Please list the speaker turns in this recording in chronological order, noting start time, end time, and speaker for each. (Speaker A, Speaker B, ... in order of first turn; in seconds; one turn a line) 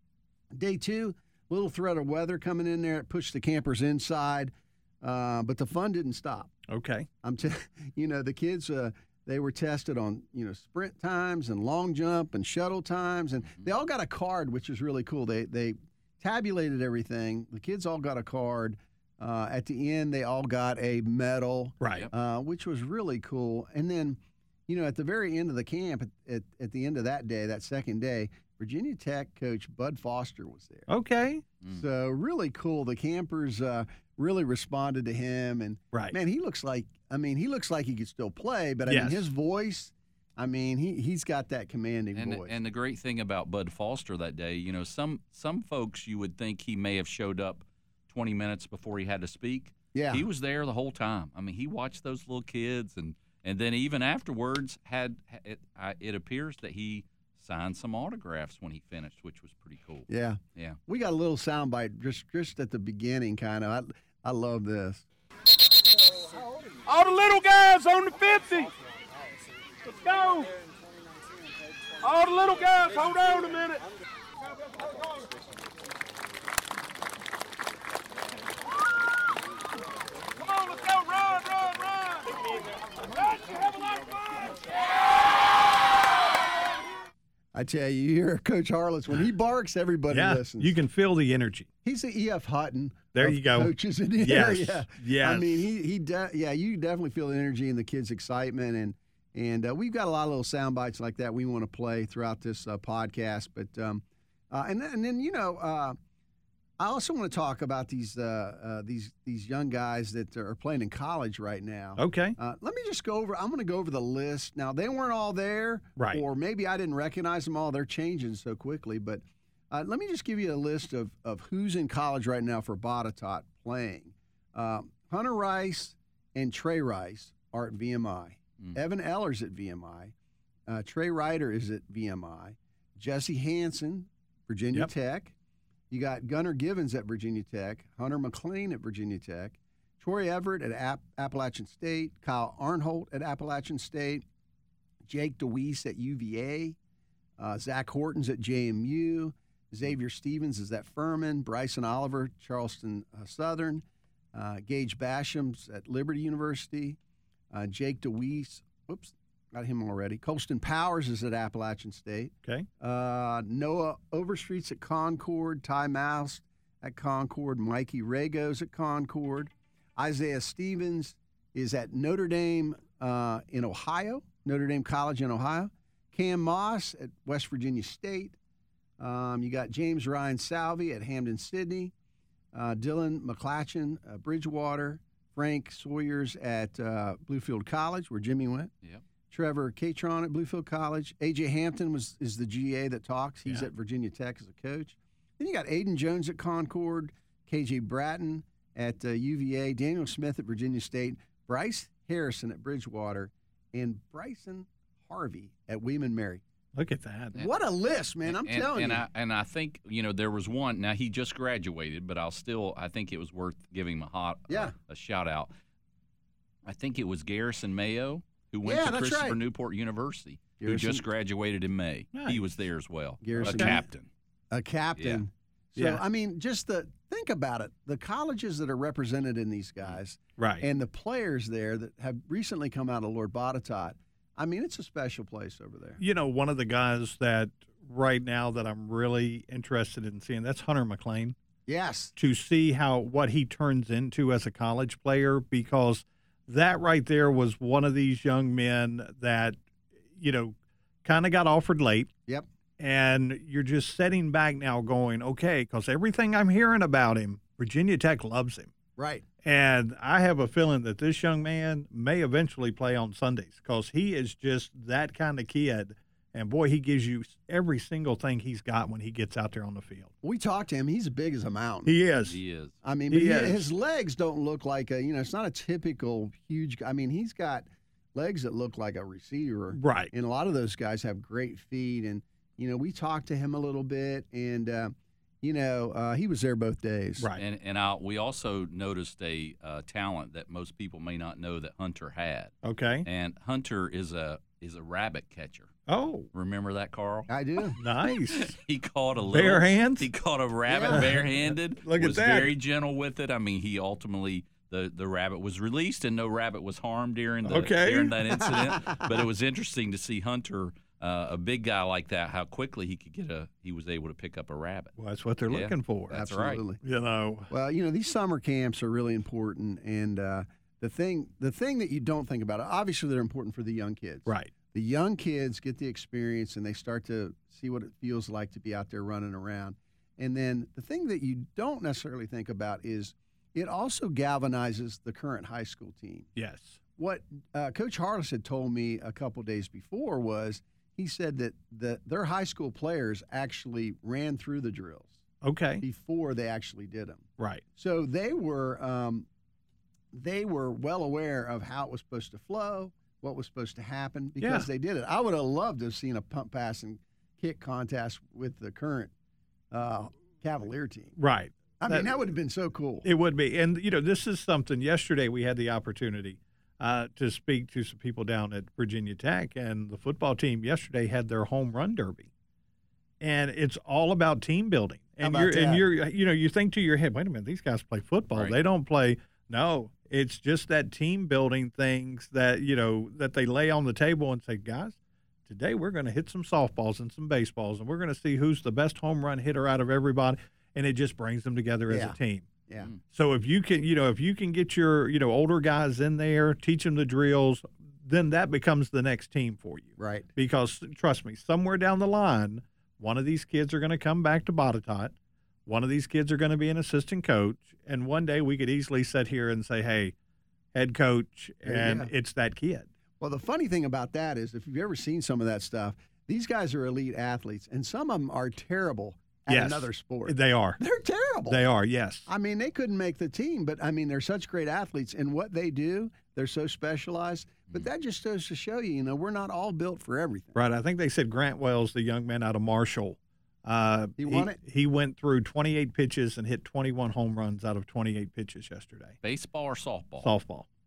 Speaker A: 0.5-6.5
Speaker B: 6.7-7.1
Speaker A: 7.2-30.9
Speaker B: 21.8-22.1
Speaker B: 30.9-31.4
Speaker A: 31.7-42.5
Speaker B: 38.9-39.3
Speaker C: 42.1-60.8
Speaker A: 49.9-50.2
Speaker A: 60.1-65.0
Speaker D: 66.9-68.7
Speaker D: 70.0-70.5
Speaker D: 72.0-73.8
Speaker D: 80.7-81.8
Speaker A: 87.5-90.7
Speaker B: 90.1-91.7
Speaker A: 91.8-106.0
Speaker B: 93.1-95.7
Speaker A: 106.8-130.1
Speaker B: 112.0-112.3
Speaker B: 116.0-116.2
Speaker A: 130.7-135.3
Speaker A: 135.9-144.2
Speaker A: 145.1-146.8
Speaker A: 147.4-153.8
Speaker A: 154.3-157.0
Speaker A: 157.5-178.3
Speaker A: 179.0-181.9
Speaker A: 182.5-188.7
Speaker A: 189.3-206.4
Speaker B: 206.7-207.4
Speaker A: 207.3-209.0
Speaker C: 208.2-215.5
Speaker C: 216.6-224.1
Speaker A: 218.6-219.4
Speaker A: 220.6-221.0
Speaker B: 222.1-222.4
Speaker A: 223.2-223.8
Speaker B: 223.4-223.8
Speaker A: 224.5-236.0
Speaker C: 225.0-225.2
Speaker B: 230.4-230.6
Speaker B: 236.0-241.3
Speaker A: 241.7-242.1
Speaker B: 242.2-249.6
Speaker B: 250.2-252.1
Speaker B: 252.8-258.7
Speaker A: 259.0-259.2
Speaker B: 259.4-270.1
Speaker A: 270.2-271.9
Speaker B: 271.9-272.4
Speaker C: 272.2-272.8
Speaker A: 272.8-287.3
Speaker B: 273.1-273.7
Speaker B: 279.7-280.1
Speaker C: 287.4-292.5
Speaker B: 292.6-293.1
Speaker C: 293.0-295.7
Speaker B: 295.9-296.3
Speaker C: 296.3-297.3
Speaker A: 297.3-297.8
Speaker B: 297.8-298.5
Speaker C: 298.3-314.9
Speaker B: 299.3-300.1
Speaker A: 300.7-301.0
Speaker B: 300.9-302.5
Speaker B: 307.4-308.1
Speaker B: 315.0-316.2
Speaker C: 315.5-316.6
Speaker A: 316.1-316.8
Speaker B: 316.8-317.5
Speaker A: 317.5-336.3
Speaker B: 336.4-336.8
Speaker A: 337.0-345.2
Speaker B: 345.4-345.8
Speaker A: 345.8-349.3
Speaker A: 350.1-359.1
Speaker B: 354.4-354.7
Speaker A: 359.7-361.1
Speaker B: 361.2-362.1
Speaker A: 361.8-363.1
Speaker B: 363.0-372.3
Speaker B: 373.2-392.5
Speaker A: 375.2-375.8
Speaker A: 391.9-392.1
Speaker B: 393.1-405.1
Speaker A: 400.0-400.3
Speaker B: 405.6-410.1
Speaker B: 410.7-412.9
Speaker A: 411.6-412.1
Speaker A: 413.2-421.6
Speaker B: 419.5-420.8
Speaker B: 421.5-422.3
Speaker A: 422.3-430.6
Speaker B: 430.5-439.1
Speaker A: 434.2-434.6
Speaker C: 439.2-440.3
Speaker B: 440.2-440.7